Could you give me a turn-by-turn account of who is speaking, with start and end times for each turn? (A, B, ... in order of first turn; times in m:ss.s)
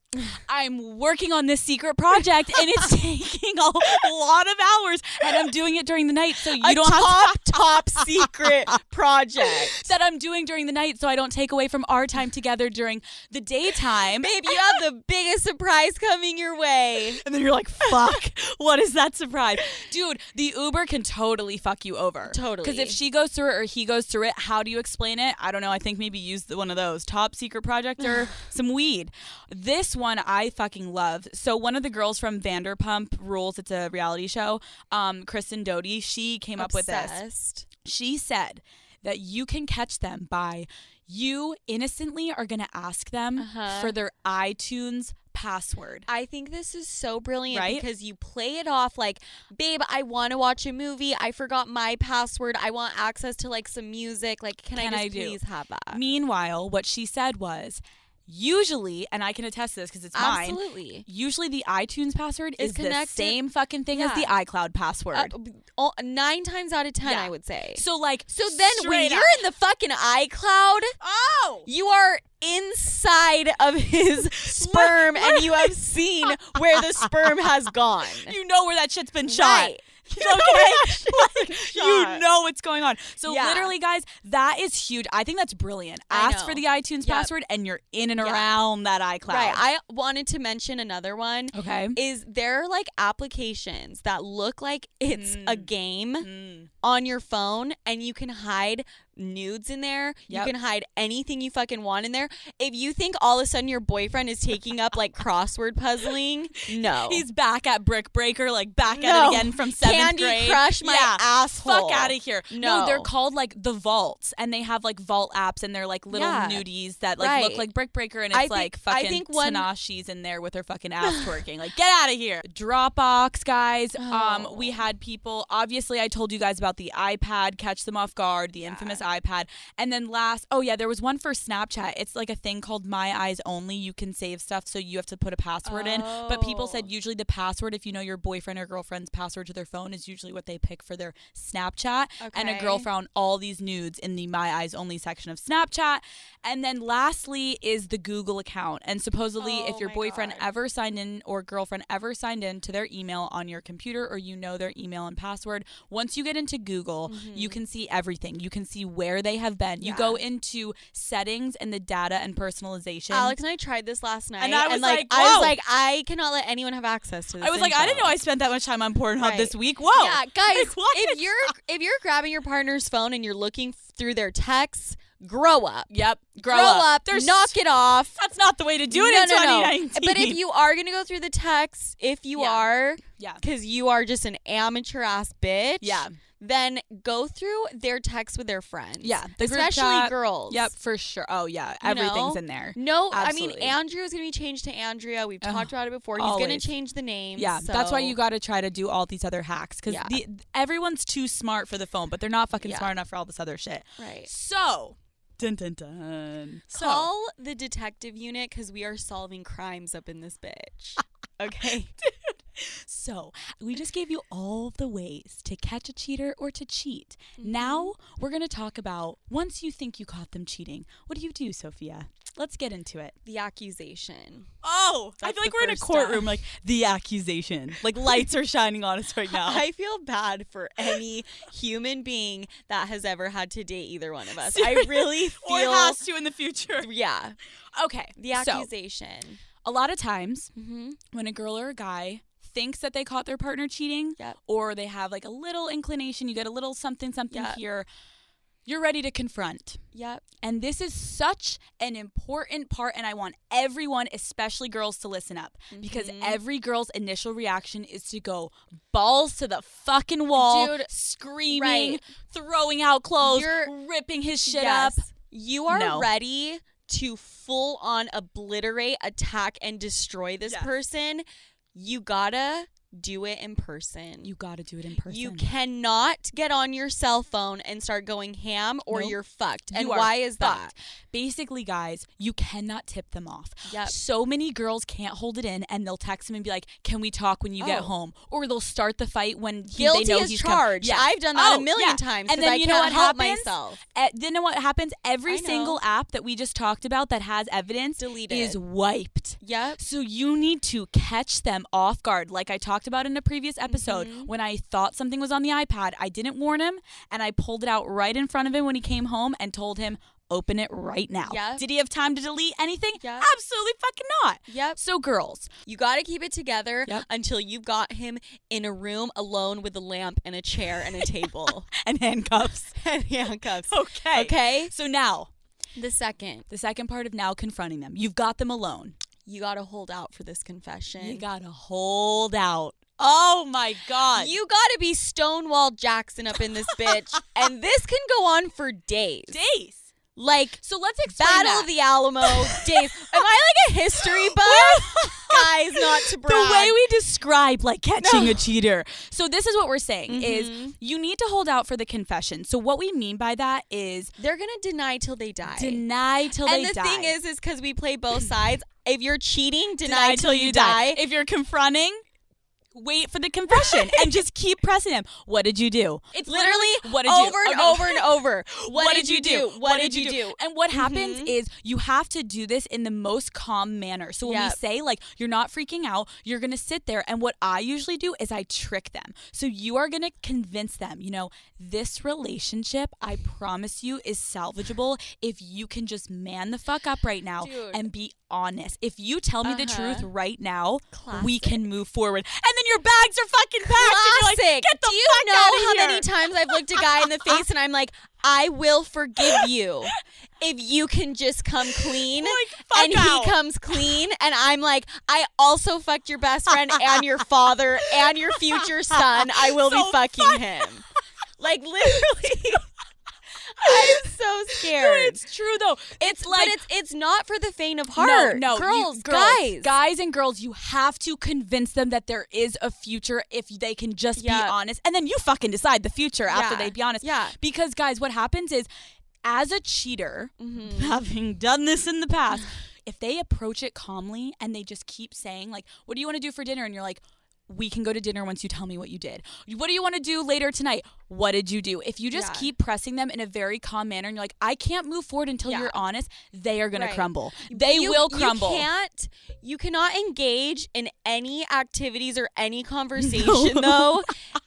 0:00.3-0:08.5 A
0:06.5-0:09.9 B
0:09.4-0:14.8 A
0:14.0-0:17.2 B
0:17.1-0:37.2 A
0:22.2-0:23.0 B
0:36.6-0:37.7 B
0:37.8-0:46.1 A
0:43.4-0:43.9 B
0:46.1-0:56.0 B
0:47.5-0:47.8 A
0:54.7-0:55.4 A
0:55.9-1:05.3 A
1:00.1-1:01.0 B
1:02.6-1:03.4 B
1:03.9-1:04.3 B
1:05.1-1:10.9 B
1:07.0-1:09.4 A
1:11.0-1:11.7 A
1:11.6-1:18.4 B
1:14.2-1:15.7 A
1:16.5-1:17.1 A
1:18.2-1:29.6 A
1:19.2-1:22.2 B
1:23.2-1:23.7 B
1:26.1-1:27.3 B
1:28.2-1:28.5 B
1:29.3-1:36.3 B
1:31.5-1:32.0 A
1:35.1-1:35.7 A
1:36.2-1:36.7 A
1:36.8-1:47.2 B
1:46.7-2:43.4 A
1:48.9-1:53.1 B
1:56.1-1:56.6 B
1:57.2-1:57.6 B
1:58.3-1:59.7 B
2:01.0-2:01.3 B
2:04.0-2:04.8 B
2:08.6-2:09.0 B
2:15.6-2:16.9 B
2:22.2-2:22.9 B
2:29.4-2:30.5 B
2:37.1-2:37.6 B
2:39.8-2:40.2 B
2:43.1-2:48.2 B
2:44.4-2:45.6 A
2:47.4-2:51.5 A
2:49.2-2:58.2 B
2:55.9-2:57.6 A
2:58.2-3:00.4 A
2:58.9-3:10.7 B
3:02.3-3:03.4 A
3:05.8-3:06.2 A
3:09.0-3:13.7 A
3:11.8-3:18.2 B
3:15.4-3:16.7 A
3:17.4-3:27.1 A
3:19.9-3:20.2 B
3:22.6-3:22.9 B
3:24.0-3:24.3 B
3:26.7-3:31.9 B
3:32.0-3:43.1 A
3:37.4-3:37.9 B
3:43.2-3:44.5 B
3:44.6-3:49.6 A
3:45.2-3:46.3 B
3:49.3-3:56.0 B
3:54.4-3:56.9 A
3:56.8-3:57.4 B
3:57.7-3:58.7 A
3:58.2-3:59.4 B
3:59.6-4:00.5 A
4:00.5-4:01.0 B
4:01.1-4:07.9 A
4:07.3-4:07.6 B
4:08.6-4:09.8 A
4:09.9-4:10.2 B
4:10.4-4:25.0 A
4:15.7-4:16.4 B
4:20.3-4:20.9 B
4:21.5-4:22.0 B
4:23.2-4:23.7 B
4:24.4-4:34.3 B
4:25.7-4:26.1 A
4:34.2-4:35.5 A
4:35.1-4:40.7 B
4:38.9-4:39.2 A
4:39.7-5:15.5 A
4:43.7-4:44.0 B
4:47.6-4:47.9 B
4:49.7-4:53.8 B
4:55.3-4:55.8 B
4:58.0-4:58.6 B
4:59.4-4:59.8 B
5:03.6-5:04.3 B
5:11.2-5:11.6 B
5:13.0-5:13.3 B
5:14.5-5:14.8 B
5:15.6-5:21.7 B
5:21.0-5:22.7 A
5:22.8-5:24.7 B
5:23.7-5:25.3 A
5:25.8-5:26.5 B
5:26.5-5:29.0 A
5:29.2-5:31.2 B
5:31.0-5:34.3 A
5:34.2-5:39.4 B
5:39.3-5:39.9 A
5:40.1-5:46.8 B
5:40.6-5:43.2 A
5:44.0-5:54.1 A
5:48.0-5:48.4 B
5:50.1-5:50.8 B
5:54.2-5:55.8 B
5:55.5-5:57.2 A
5:56.4-6:01.0 B
5:59.8-6:02.0 A
6:02.7-6:37.4 A
6:03.5-6:04.1 B
6:06.2-6:11.3 B
6:14.2-6:14.6 B
6:27.4-6:27.8 B
6:29.4-6:30.1 B
6:30.9-6:31.6 B
6:33.6-6:50.8 B
6:39.2-6:39.5 A
6:41.7-6:43.9 A
6:48.3-6:50.4 A
6:51.4-6:52.7 B
6:53.6-6:55.2 B
6:53.6-6:56.6 A
6:56.0-6:59.7 B
6:58.0-7:08.7 A
7:04.2-7:04.5 B
7:06.3-7:07.3 B
7:09.2-7:28.7 A
7:10.4-7:11.0 B
7:22.1-7:22.5 B
7:25.4-7:25.8 B
7:26.7-7:34.2 B
7:33.0-7:34.1 A